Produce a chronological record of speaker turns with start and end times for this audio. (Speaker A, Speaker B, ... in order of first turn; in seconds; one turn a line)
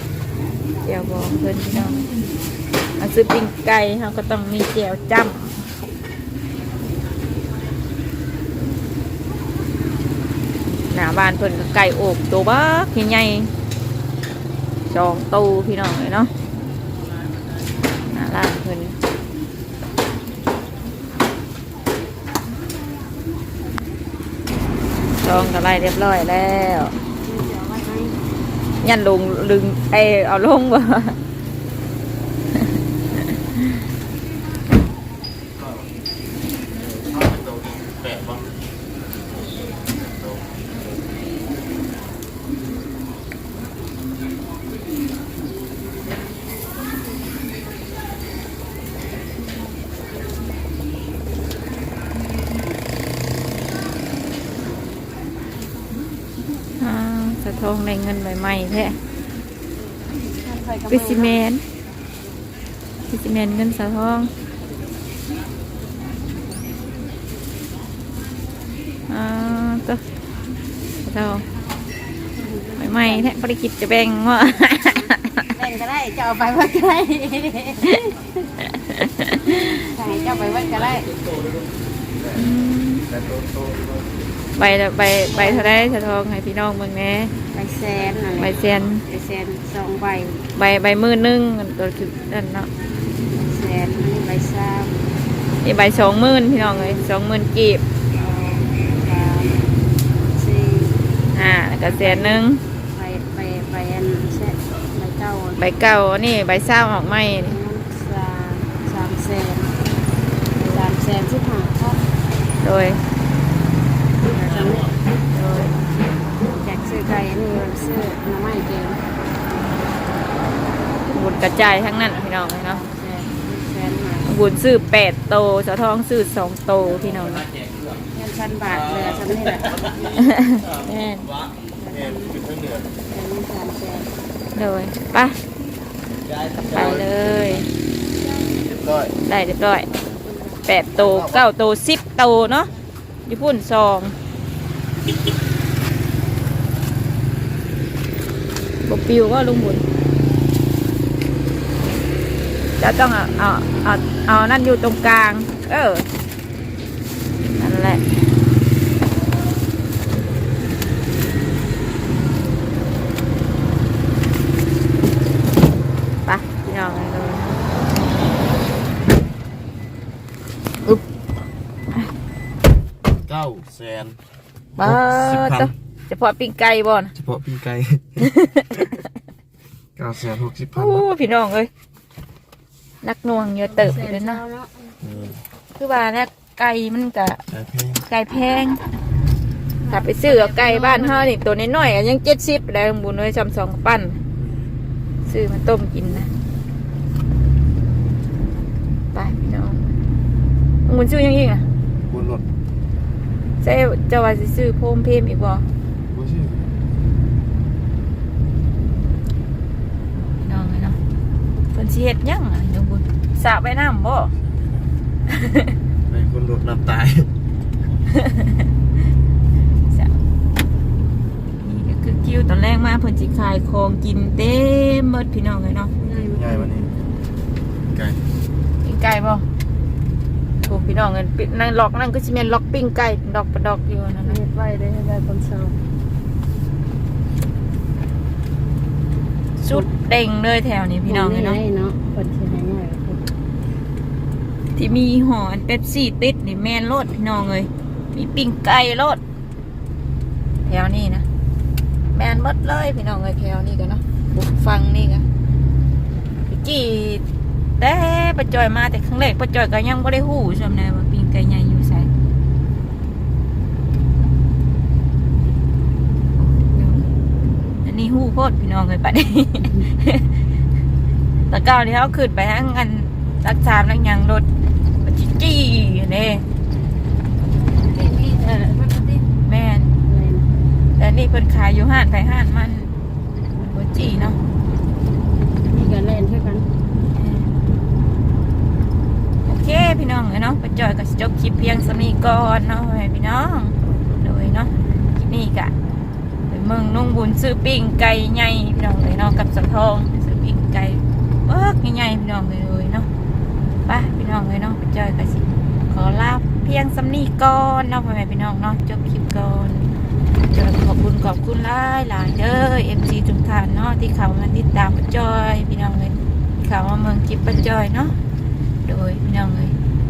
Speaker A: 0.8-2.1
Speaker A: 3.0-5.6
Speaker A: 10.9-13.5
Speaker A: 14.9-16.3
Speaker A: 18.1-18.9
Speaker A: 25.2-26.9
Speaker B: 25.2-25.6
Speaker B: 27.2-28.2
Speaker A: 28.8-31.2
Speaker C: 36.8-38.5
Speaker C: 40.0-40.6
Speaker A: 56.8-59.0
Speaker B: 60.4-61.4
Speaker A: 60.9-61.6
Speaker A: 63.1-64.3
Speaker A: 69.1-70.0
Speaker A: 71.0-71.4
Speaker B: 72.3-73.4
Speaker A: 72.8-75.4
Speaker B: 74.8-78.2
Speaker A: 78.8-79.7
Speaker B: 79.7-81.1
Speaker C: 82.2-82.5
Speaker A: 82.3-83.1
Speaker C: 83.1-84.1
Speaker A: 84.6-87.3
Speaker B: 85.3-85.9
Speaker B: 87.5-90.4
Speaker A: 88.4-89.0
Speaker A: 90.5-92.7
Speaker B: 93.3-95.0
Speaker A: 95.6-97.8
Speaker B: 95.7-97.0
Speaker B: 98.1-100.9
Speaker A: 101.3-102.6
Speaker B: 101.8-105.7
Speaker A: 105.6-107.6
Speaker B: 107.3-109.8
Speaker A: 110.6-110.8
Speaker B: 110.7-112.0
Speaker A: 112.6-113.0
Speaker B: 114.3-114.9
Speaker A: 115.3-115.7
Speaker B: 116.5-119.0
Speaker A: 121.1-122.8
Speaker B: 122.5-124.3
Speaker A: 124.2-127.4
Speaker B: 128.1-130.1
Speaker A: 130.2-131.3
Speaker B: 131.8-132.4
Speaker C: 131.9-132.9
Speaker B: 133.1-134.1
Speaker A: 134.5-135.4
Speaker C: 136.7-137.6
Speaker A: 136.7-137.7
Speaker C: 138.6-139.1
Speaker A: 139.2-139.9
Speaker B: 140.2-140.6
Speaker A: 140.7-142.7
Speaker C: 141.0-141.4
Speaker A: 143.3-144.1
Speaker A: 148.8-149.8
Speaker A: 152.8-156.1
Speaker A: 157.6-158.0
Speaker A: 166.2-167.4
Speaker C: 173.2-174.2
Speaker A: 174.8-177.1
Speaker C: 174.8-175.7
Speaker C: 177.1-178.3
Speaker C: 180.0-181.0
Speaker A: 180.7-181.7
Speaker A: 183.0-184.4
Speaker B: 183.7-185.0
Speaker C: 185.0-185.4
Speaker A: 185.8-187.4
Speaker C: 187.5-188.0
Speaker A: 188.0-188.8
Speaker B: 189.8-191.3
Speaker A: 189.9-194.2
Speaker C: 194.3-194.7
Speaker A: 195.2-196.3
Speaker A: 199.1-199.9
Speaker A: 200.8-201.7
Speaker C: 202.1-202.4
Speaker A: 203.6-205.7
Speaker C: 206.1-206.6
Speaker A: 210.4-211.0
Speaker A: 211.7-214.3
Speaker C: 216.1-217.3
Speaker A: 218.1-218.4
Speaker A: 221.6-225.9
Speaker B: 226.0-226.8
Speaker C: 226.3-226.9
Speaker C: 227.9-228.2
Speaker A: 228.8-229.4
Speaker A: 230.6-234.4
Speaker B: 234.2-235.8
Speaker A: 239.6-241.6
Speaker B: 241.1-243.2
Speaker A: 244.7-249.2
Speaker A: 250.6-251.2
Speaker A: 252.1-255.2
Speaker A: 256.5-257.2
Speaker A: 257.8-262.1
Speaker A: 266.4-267.1
Speaker A: 267.8-270.3
Speaker A: 271.5-274.4
Speaker A: 275.0-276.4
Speaker B: 277.8-279.3
Speaker A: 279.4-279.9
Speaker B: 280.0-280.6
Speaker A: 281.0-282.9
Speaker A: 283.6-284.4
Speaker B: 285.6-286.7
Speaker A: 287.1-287.5
Speaker A: 289.4-295.7
Speaker A: 296.5-303.1
Speaker A: 303.9-309.9
Speaker A: 310.5-318.1
Speaker A: 318.8-319.8